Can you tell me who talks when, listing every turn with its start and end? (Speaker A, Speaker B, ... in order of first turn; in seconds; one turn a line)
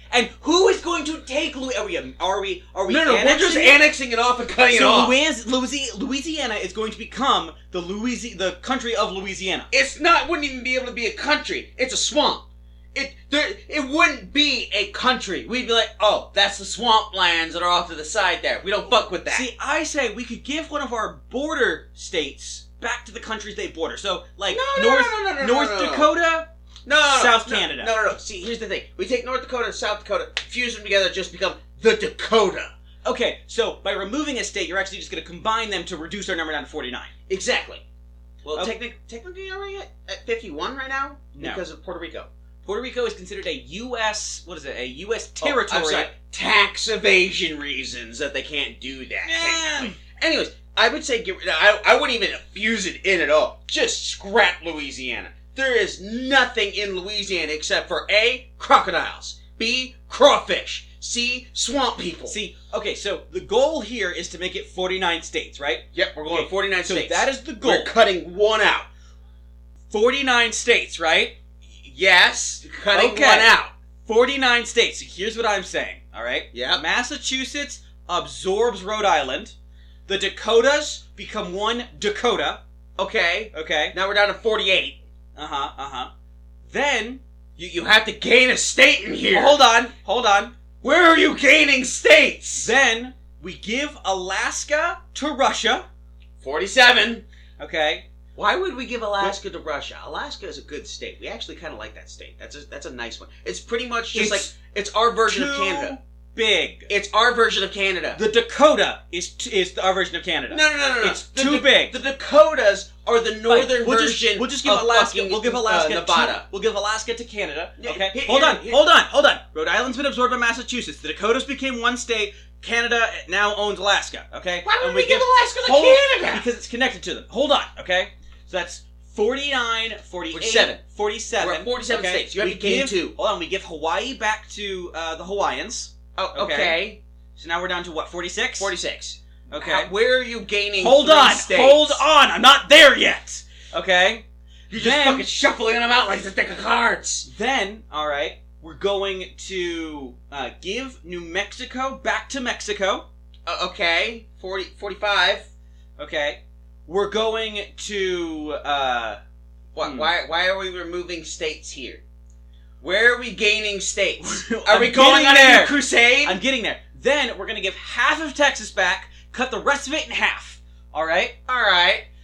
Speaker A: 0.1-3.8
Speaker B: 2.9-5.2
Speaker A: 4.7-9.7
Speaker B: 9.7-19.5
Speaker A: 19.3-26.5
Speaker B: 24.5-26.1
Speaker B: 26.9-32.7
Speaker A: 27.1-27.9
Speaker A: 33.0-37.1
Speaker B: 37.3-37.8
Speaker B: 38.5-42.3
Speaker A: 38.5-38.7
Speaker A: 41.3-41.6
Speaker A: 42.6-46.1
Speaker B: 45.4-62.4
Speaker A: 49.2-50.0
Speaker A: 62.3-67.9
Speaker B: 66.0-68.9
Speaker A: 69.9-71.3
Speaker B: 71.8-73.7
Speaker A: 72.9-73.5
Speaker A: 74.1-79.5
Speaker B: 76.5-76.8
Speaker A: 80.1-82.6
Speaker B: 83.0-85.0
Speaker A: 83.5-84.0
Speaker A: 85.4-86.1
Speaker A: 86.7-87.2
Speaker B: 87.6-89.6
Speaker A: 89.3-90.5
Speaker B: 90.8-92.7
Speaker A: 92.6-95.9
Speaker B: 96.4-97.2
Speaker A: 97.6-98.1
Speaker B: 98.4-106.0
Speaker A: 104.1-104.5
Speaker A: 105.3-106.9
Speaker B: 106.9-108.2
Speaker A: 108.1-112.0
Speaker B: 110.5-116.5
Speaker A: 113.5-136.8
Speaker B: 117.8-118.8
Speaker B: 124.6-126.5
Speaker B: 130.3-130.8
Speaker B: 131.4-133.2
Speaker B: 136.2-137.0
Speaker A: 137.4-138.7
Speaker B: 138.6-142.0
Speaker A: 139.5-139.9
Speaker A: 140.8-144.2
Speaker B: 144.7-147.3
Speaker A: 144.8-145.2
Speaker A: 147.2-153.1
Speaker B: 153.5-155.5
Speaker A: 156.0-159.2
Speaker B: 159.8-162.0
Speaker A: 159.8-160.1
Speaker B: 162.8-166.4
Speaker A: 164.2-171.3
Speaker B: 171.5-172.1